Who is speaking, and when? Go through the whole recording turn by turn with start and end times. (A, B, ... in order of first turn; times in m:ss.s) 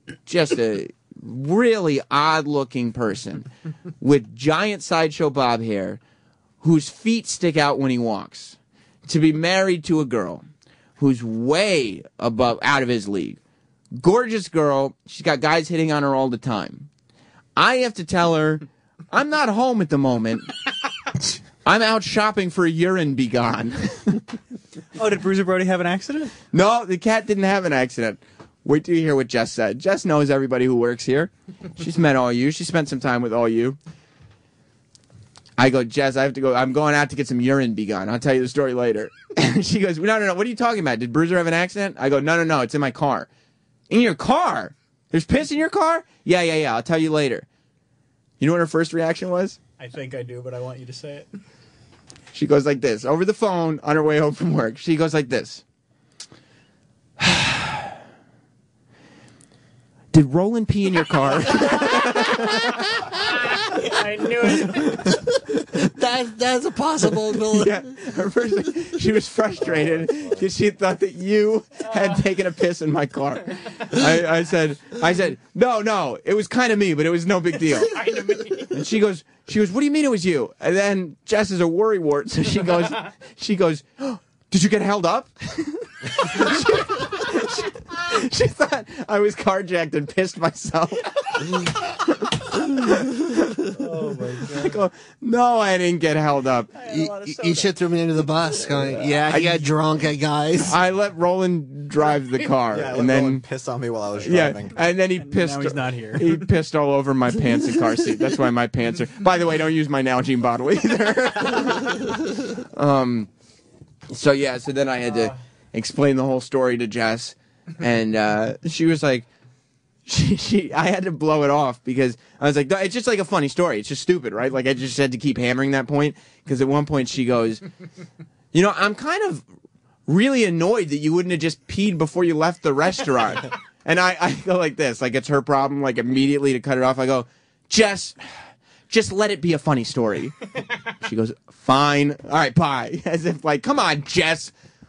0:00.3-0:03.5 A
0:04.0-0:06.0 A
0:06.6-0:10.4 A
0:11.0-0:13.4 A
0:14.0-0:16.9 A
0:17.6-0:20.5 A
0:21.6-0:24.2 A
0:25.0-0:26.4 B
0:26.5-0:33.8 A
0:35.6-0:43.3 A
0:43.9-0:47.5 A
0:48.4-0:49.6 A
0:49.8-0:51.3 B
0:52.3-0:55.6 A
0:57.2-0:57.8 A
1:00.1-1:02.9 A
1:03.2-1:08.0 C
1:04.4-1:05.2 A
1:07.5-1:33.6 A
1:18.0-1:18.5 B
1:33.8-1:34.8 D
1:34.5-1:36.7 A
1:36.8-1:37.8 B
1:36.8-1:40.8 C
1:39.3-1:39.7 A
1:40.7-1:43.4 A
1:42.7-1:44.8 D
1:44.2-1:53.3 A
1:45.2-1:46.5 B
1:54.1-1:59.3 A
2:00.1-2:07.6 A
2:08.5-2:09.4 A
2:10.1-2:18.2 A
2:18.9-2:20.4 A
2:21.0-2:24.5 A